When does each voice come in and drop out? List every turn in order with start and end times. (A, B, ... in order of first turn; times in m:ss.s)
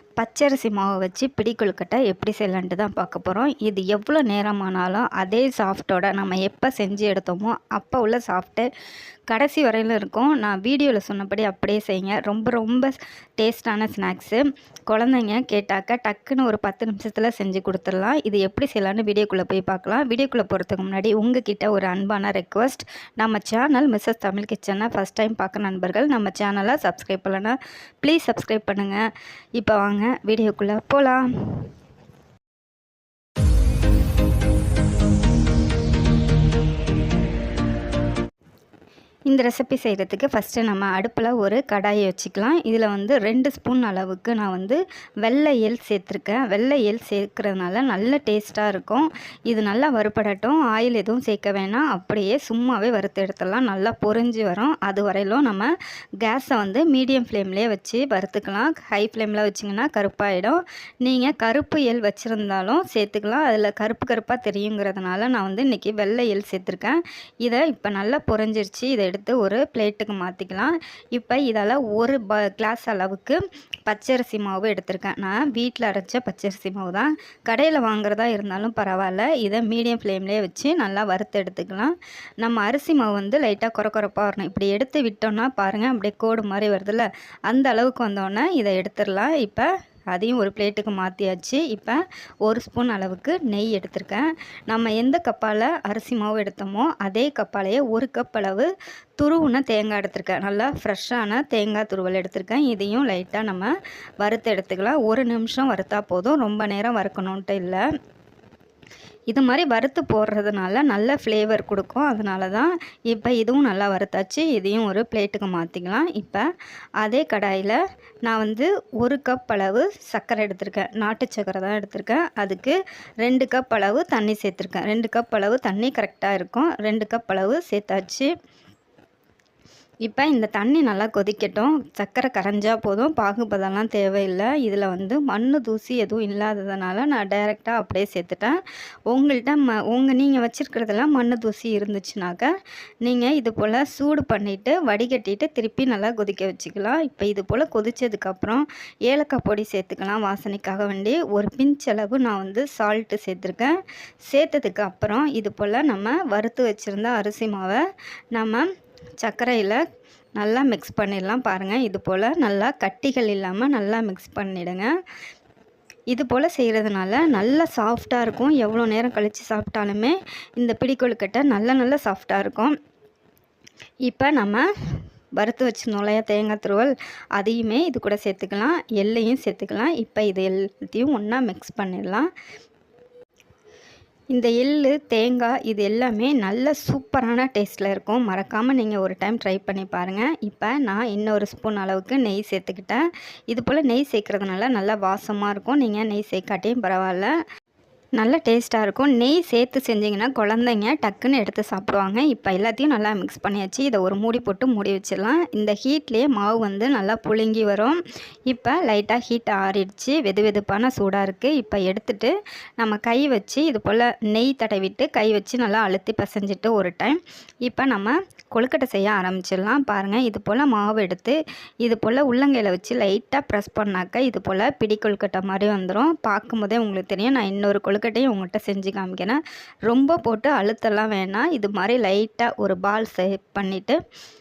0:00.2-0:08.7 A
0:09.3-0:29.0 A
0:29.6-0:31.7 A
0:39.3-0:55.7 A
0:56.2-1:47.8 A
1:49.3-1:56.5 A
1:57.0-2:08.3 A
2:10.0-2:22.5 A
2:23.0-2:38.7 A
2:39.2-2:39.8 A
2:40.4-2:44.9 A
2:46.1-2:52.8 A
2:54.0-2:54.7 A
2:55.4-3:02.3 A
3:04.3-3:17.3 A
3:18.2-3:54.0 A